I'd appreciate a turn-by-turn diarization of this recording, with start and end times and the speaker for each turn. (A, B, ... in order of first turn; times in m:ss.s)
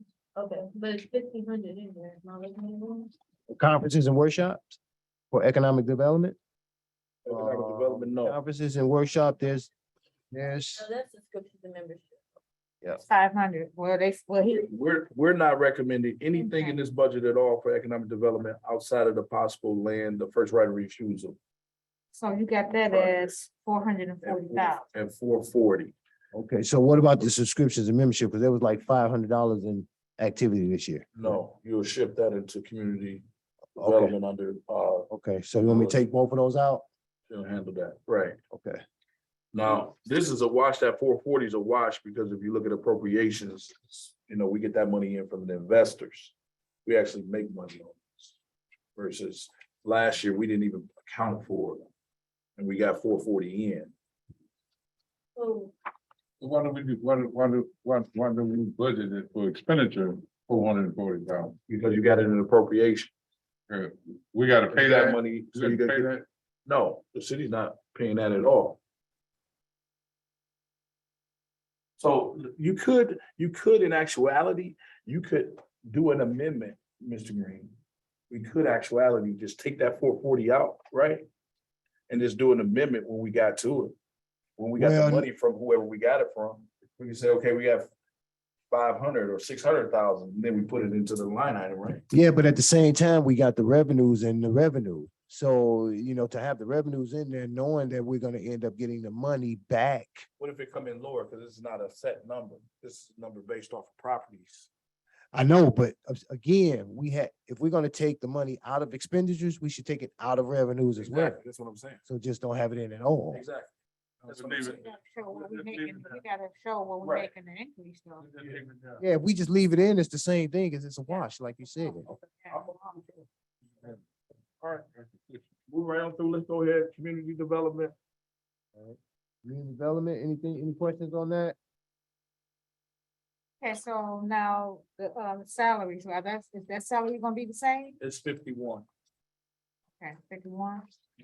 0:00.4-0:03.0 A
0:00.5-0:02.9 B
0:03.5-0:04.8 C
0:05.3-0:06.4 C
0:07.2-0:08.4 D
0:07.3-0:09.7 C
0:10.3-0:10.9 C
0:10.8-0:12.2 A
0:13.0-0:14.7 B
0:14.5-0:21.4 D
0:16.4-0:16.8 B
0:22.1-0:24.8 B
0:22.9-0:23.3 D
0:24.2-0:25.9 D
0:26.3-0:31.4 C
0:31.2-0:33.2 D
0:33.8-0:34.2 C
0:33.8-0:35.1 D
0:35.1-0:36.8 C
0:35.6-0:36.0 D
0:37.3-0:38.4 D
0:38.5-0:38.8 C
0:39.5-0:46.3 D
0:46.8-0:48.4 D
0:49.0-0:51.9 D
0:52.6-0:53.9 D
0:55.4-0:55.7 B
0:56.4-1:01.6 E
1:01.7-1:03.1 D
1:03.7-1:06.2 E
1:04.7-1:06.1 D
1:06.6-1:08.8 D
1:12.0-1:17.7 D
1:18.3-1:21.2 D
1:22.1-1:24.0 D
1:24.6-1:27.9 D
1:24.8-1:25.3 C
1:28.7-1:32.0 D
1:32.1-1:40.2 C
1:40.4-1:44.7 D
1:45.3-1:51.4 C
1:51.0-1:52.0 D
1:52.0-1:53.4 C
1:53.3-1:53.7 D
1:54.2-1:56.2 E
1:54.2-1:54.7 D
1:54.6-1:58.3 B
1:57.0-1:57.3 D
1:58.2-1:59.0 E
1:59.0-2:02.1 C
2:01.1-2:02.7 B
2:02.5-2:03.1 D
2:04.6-2:05.4 E
2:05.7-2:08.0 D
2:08.7-2:11.6 C
2:13.6-2:18.0 B
2:18.0-2:18.8 D
2:20.0-2:20.9 B